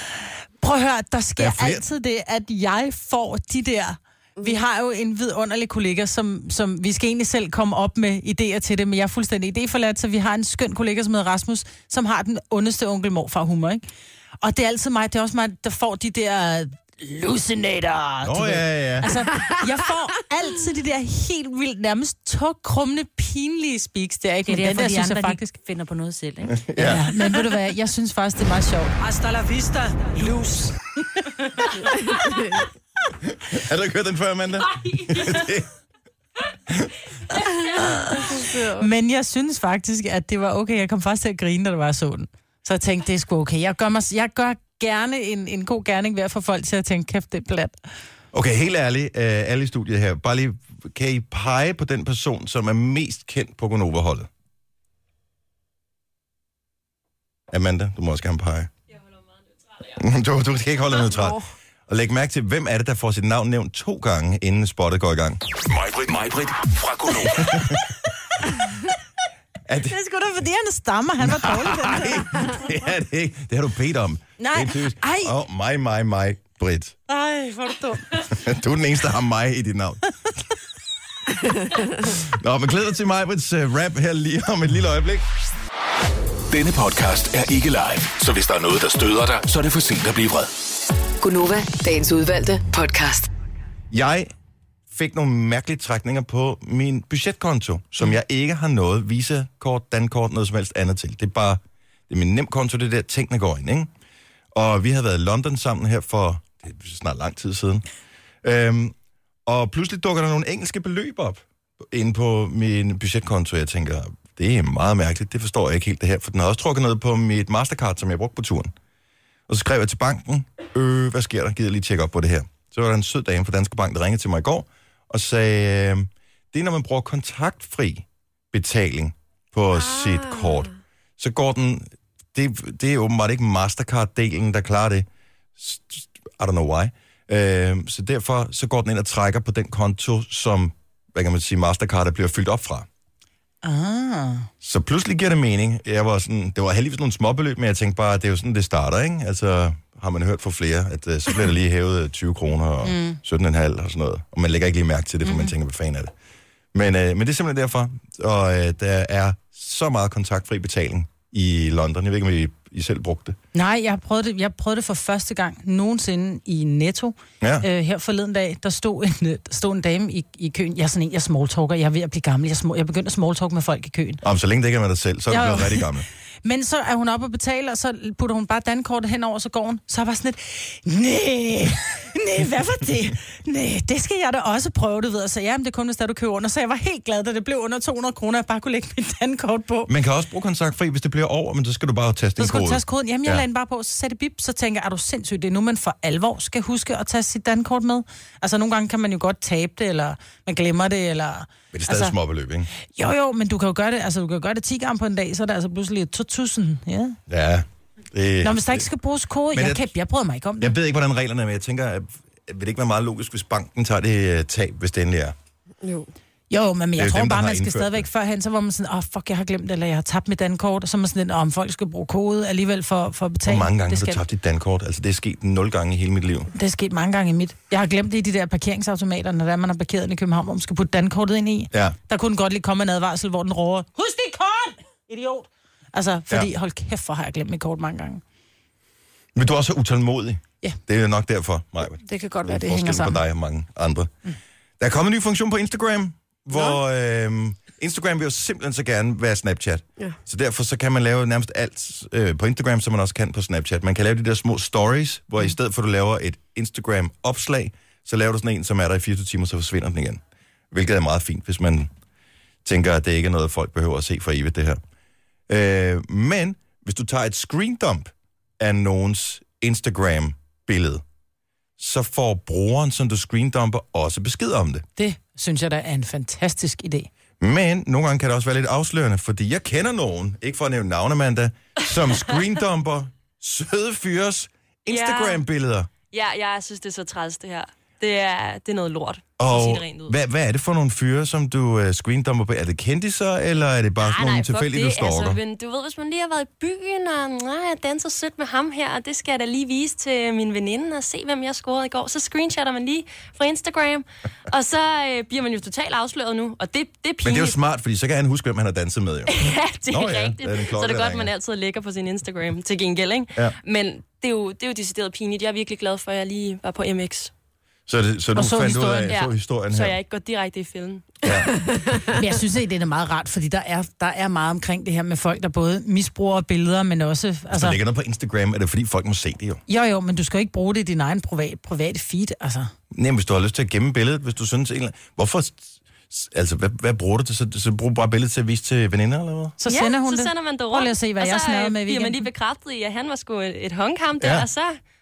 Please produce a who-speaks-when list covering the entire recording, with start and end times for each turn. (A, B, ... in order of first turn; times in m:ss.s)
0:00.6-0:13.8 A
0:01.4-0:01.8 B
0:14.4-0:25.4 A
0:18.2-0:19.1 B
0:24.5-0:26.7 C
0:26.5-0:27.1 B
0:26.8-0:31.9 A
0:32.0-0:32.6 D
0:33.2-0:35.7 B
0:35.0-0:35.3 C
0:36.7-0:37.0 B
0:37.6-0:38.9 D
0:37.8-0:47.8 A
0:48.3-0:54.3 B
0:57.5-0:58.7 B
0:59.6-0:59.9 E
1:00.0-1:05.4 B
1:01.0-1:01.4 D
1:05.6-1:07.8 F
1:07.3-1:07.8 B
1:09.7-1:10.0 B
1:09.8-1:12.7 A
1:11.2-1:17.0 B
1:14.4-1:15.3 A
1:17.1-1:18.3 A
1:18.3-1:20.0 B
1:22.0-1:25.2 B
1:26.5-1:30.5 F
1:31.2-1:33.3 G
1:33.9-1:34.3 B
1:34.9-1:43.9 B
1:44.5-1:47.9 B
1:48.4-1:49.0 B
1:49.5-1:58.7 B
1:59.5-2:15.1 B
2:09.7-2:10.7 D
2:15.6-2:22.9 B
2:23.6-2:24.5 A
2:24.6-2:36.1 B
2:32.8-2:33.2 A
2:35.2-2:35.5 A
2:36.7-2:43.4 B
2:43.5-2:54.2 A
2:47.4-2:47.7 B
2:54.2-2:56.1 B
2:55.3-3:09.9 A
3:09.9-3:13.4 B
3:12.4-3:22.2 A
3:21.7-3:22.7 B
3:23.0-3:27.2 A
3:27.3-3:28.9 B
3:28.4-3:30.8 A
3:29.5-3:29.9 B
3:30.6-3:35.4 B
3:35.8-3:36.1 D
3:36.5-3:44.2 A
3:37.0-3:38.1 B
3:43.5-3:46.5 B
3:46.5-3:58.2 A
3:51.7-3:52.0 B
3:59.4-4:04.1 B
4:02.0-4:03.2 A
4:04.8-4:21.9 B
4:22.6-4:24.8 B
4:25.5-4:31.0 B
4:31.8-4:34.8 B
4:35.0-4:37.1 A
4:37.4-4:45.9 B
4:44.9-4:45.4 E
4:46.0-4:50.2 E
4:49.4-4:55.4 B
4:54.0-5:07.6 E
5:07.2-5:09.4 B
5:09.3-5:17.3 E
5:09.9-5:11.3 B
5:17.9-5:20.0 B
5:18.4-5:19.2 A
5:19.1-5:21.4 E
5:21.2-5:21.5 B
5:21.5-5:22.1 D
5:22.1-5:27.8 A
5:27.5-5:29.6 B
5:29.7-5:32.7 A
5:32.9-5:39.6 B
5:39.6-5:42.3 A
5:39.6-5:44.8 E
5:44.2-5:44.5 B